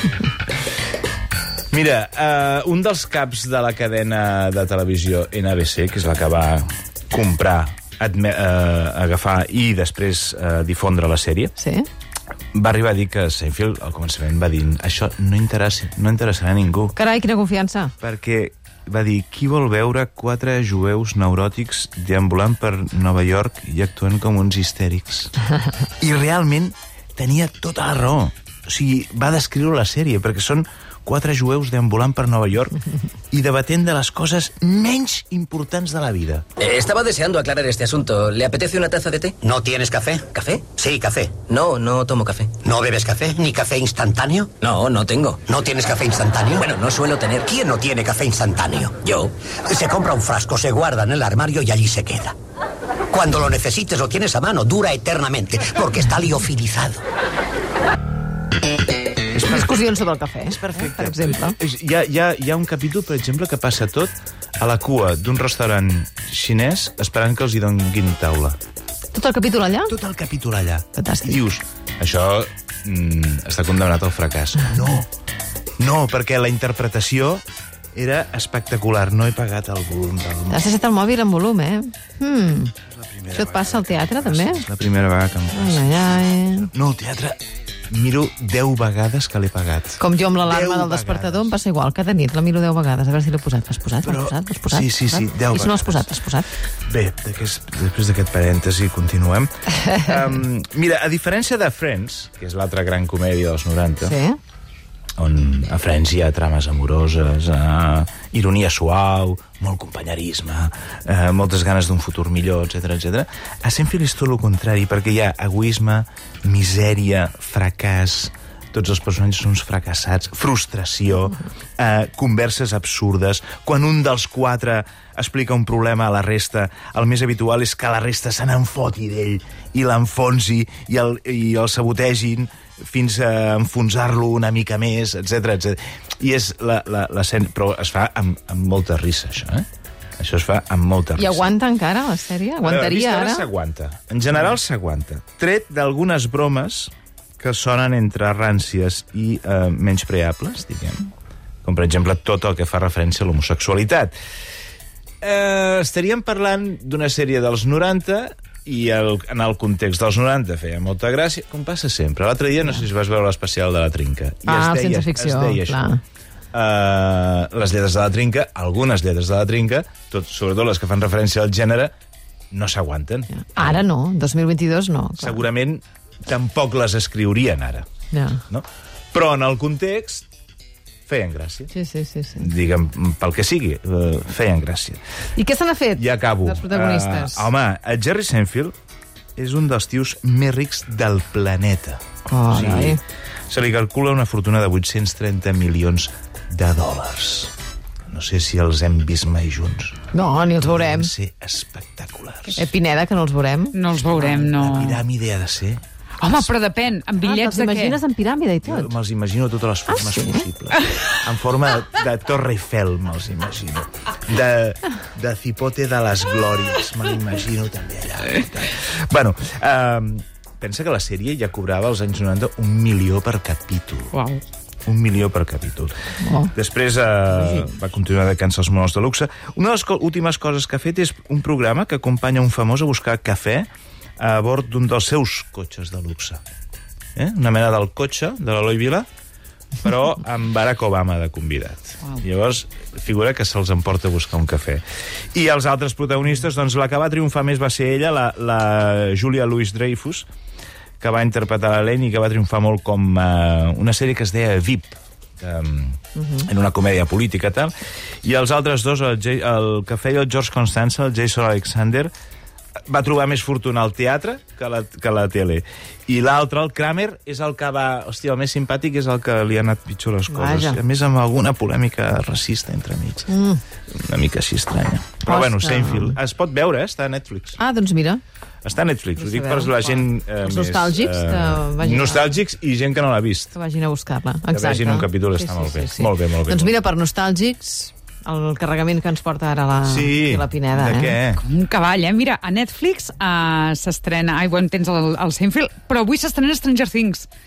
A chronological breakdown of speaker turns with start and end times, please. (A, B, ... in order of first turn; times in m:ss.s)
0:01.7-0:11.5 A
0:11.6-0:11.9 B
0:12.5-0:16.9 A
0:16.9-0:17.9 B
0:18.0-0:25.3 A
0:26.0-0:32.8 A
0:33.3-0:36.4 A
0:36.6-0:39.3 C
0:39.4-0:41.4 D
0:40.3-0:40.6 C
0:41.5-0:42.5 C
0:42.6-0:44.5 D
0:44.6-0:45.4 C
0:45.4-0:49.1 D
0:46.5-0:47.5 C
0:49.0-0:49.3 C
0:49.6-0:52.3 D
0:53.1-0:57.0 D
0:59.3-1:01.6 B
0:59.4-0:59.7 A
1:00.4-1:08.6 A
1:09.1-1:09.9 B
1:09.9-1:15.1 A
1:11.0-1:11.4 B
1:15.8-1:17.4 A
1:17.9-1:20.6 A
1:20.5-1:22.7 B
1:22.9-1:31.5 A
1:23.3-1:24.6 B
1:25.5-1:26.7 B
1:30.0-1:36.5 B
1:34.0-1:36.0 A
1:36.8-1:44.2 A
1:44.0-1:44.4 B
1:45.2-2:19.6 A
2:20.2-2:21.5 A
2:21.2-2:23.4 B
2:22.6-2:31.1 A
2:31.6-2:34.1 A
2:35.2-2:45.9 A
2:44.5-2:46.0 B
2:46.5-2:51.9 A
2:52.5-2:53.8 A
2:53.4-2:55.4 B
2:55.2-2:57.8 A
2:58.1-2:58.4 B
2:58.5-3:00.2 A
3:01.1-3:01.7 A
3:01.7-3:02.5 B
3:02.4-3:05.0 A
3:05.4-3:07.5 B
3:06.0-3:08.7 A
3:09.4-3:17.5 A
3:12.2-3:13.0 B
3:18.1-3:20.0 A
3:20.1-3:21.1 B
3:20.6-3:22.6 A
3:22.6-3:23.8 B
3:23.7-3:25.0 E
3:24.2-3:26.5 A
3:26.2-3:28.0 E
3:27.2-3:28.9 B
3:28.6-3:44.2 A
3:29.9-3:30.4 B
3:44.1-3:44.4 E
3:44.8-3:53.7 A
3:46.2-3:46.5 B
3:54.2-3:56.4 A
3:57.2-3:59.1 A
3:59.8-4:04.8 A
4:05.3-4:10.3 A
4:11.0-4:17.7 A
4:18.2-4:22.1 A
4:22.9-4:33.3 A
4:30.3-4:30.8 B
4:33.3-4:33.6 B
4:33.9-4:37.6 A
4:35.2-4:36.2 B
4:37.6-4:38.2 B
4:38.6-4:43.6 A
4:39.2-4:42.3 B
4:43.5-4:51.2 B
4:44.5-4:46.8 A
4:49.8-4:51.4 A
4:51.4-4:57.3 E